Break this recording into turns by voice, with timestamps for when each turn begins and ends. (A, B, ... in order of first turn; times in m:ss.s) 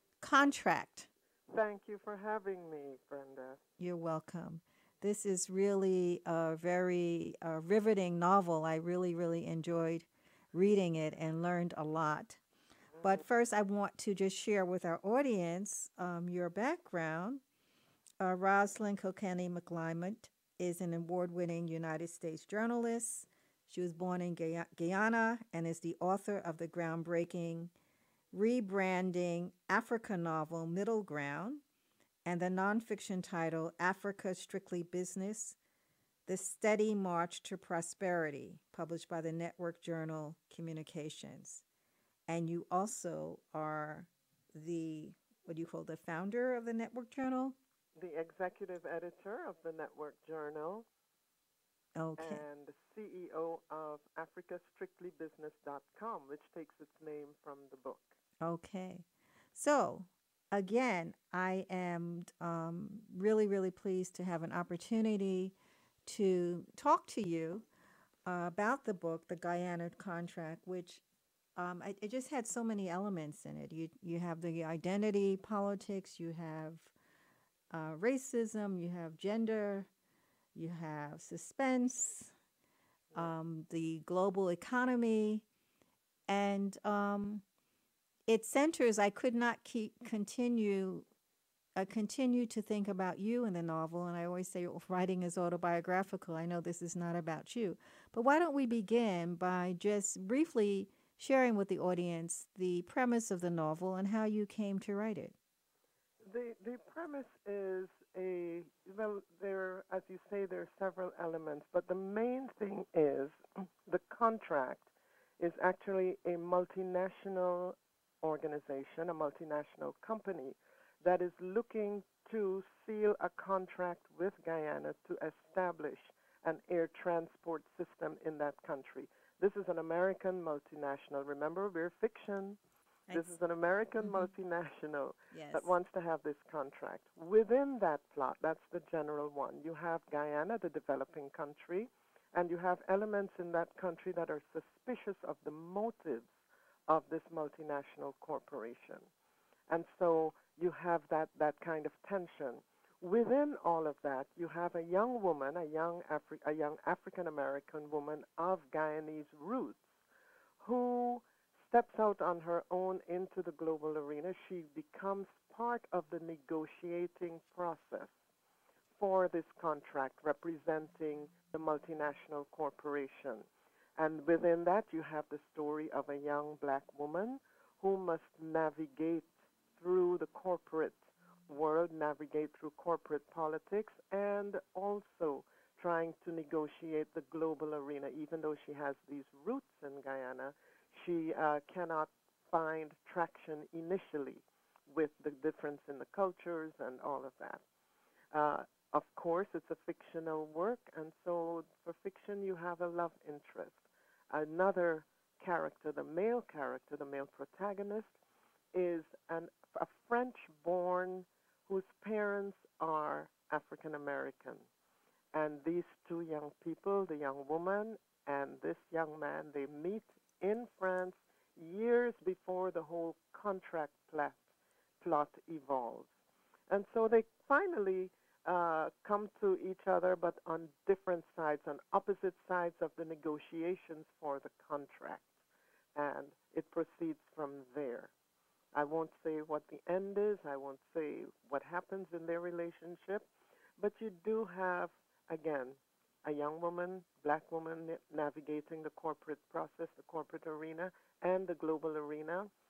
0:00.2-0:01.1 A
0:01.5-0:03.6 B
0:03.8-0:12.4 A
0:13.0-0:17.4 A
0:18.2-0:27.7 A
0:28.3-0:31.6 A
0:32.2-0:35.6 A
0:36.2-0:41.6 A
0:42.3-0:47.6 A
0:48.0-0:50.8 B
0:52.0-0:52.4 A
0:52.2-0:58.2 B
0:58.4-1:07.6 A
1:08.2-1:11.0 A
1:11.6-1:16.9 A
1:17.7-1:19.9 A
1:20.5-1:22.3 A
1:23.1-1:25.4 A
1:26.3-1:27.4 A
1:28.3-1:31.1 A
1:31.8-1:45.3 A
1:46.2-1:54.9 B
1:55.4-2:12.6 B
2:13.1-2:13.4 A
2:13.1-2:26.3 B
2:15.3-2:15.7 A
2:26.9-2:29.1 B
2:29.7-2:39.8 B
2:40.6-2:48.1 B
2:49.0-3:17.6 B
3:18.3-3:28.1 B
3:28.7-3:34.7 B
3:35.3-3:44.4 B
3:45.0-3:46.1 B
3:46.7-3:55.3 B
3:56.0-3:58.1 B
3:58.7-4:03.3 B
4:03.8-4:12.5 B